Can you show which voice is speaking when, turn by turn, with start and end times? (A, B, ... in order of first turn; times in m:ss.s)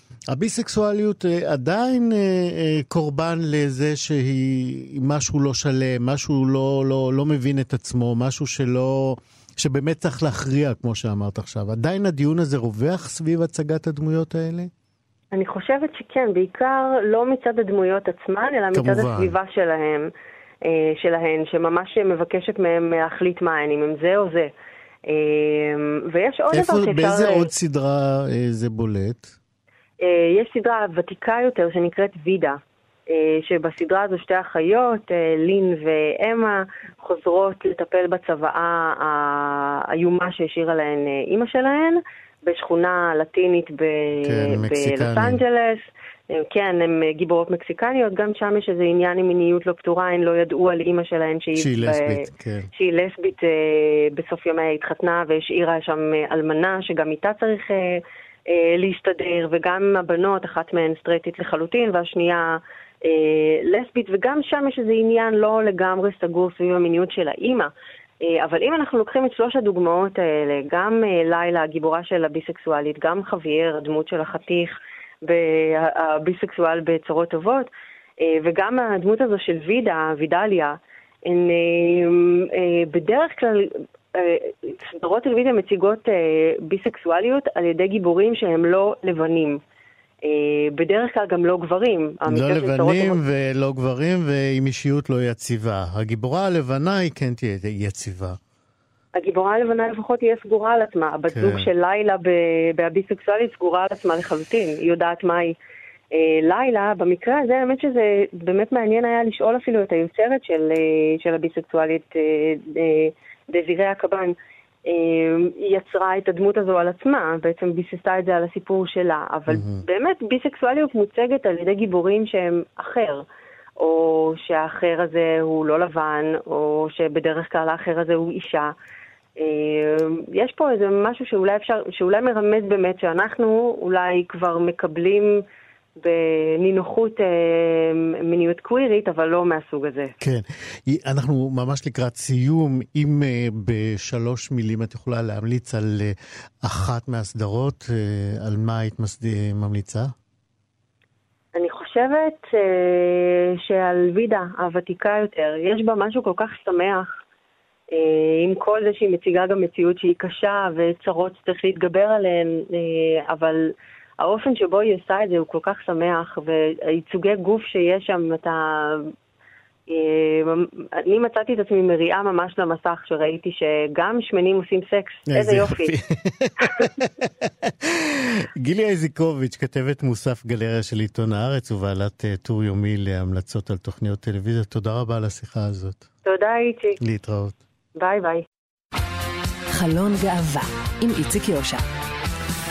0:00.3-0:14.7 A
0:15.3-0:20.1 B
0:18.7-0:19.3 A
0:20.6-0:24.5 B
0:25.0-0:27.5 B
0:26.5-0:29.3 A
0:30.0-1:07.7 B
0:44.2-0:45.4 A
0:51.6-0:52.7 A
1:08.2-1:17.7 B
1:18.2-1:29.6 B
1:30.2-1:33.2 B
1:32.3-1:38.4 A
1:39.2-1:45.6 B
1:41.3-1:41.7 A
1:46.1-2:03.2 B
1:59.5-1:59.8 A
2:03.8-2:08.7 B
2:09.4-2:15.4 B
2:16.0-2:20.1 B
2:20.2-2:30.1 A
2:31.5-2:37.1 B
2:37.9-2:49.1 B
2:49.9-2:55.9 B
2:55.3-3:06.1 A
3:06.2-3:07.0 B
3:07.0-3:07.6 A
3:08.0-3:08.4 B
3:09.7-3:11.8 C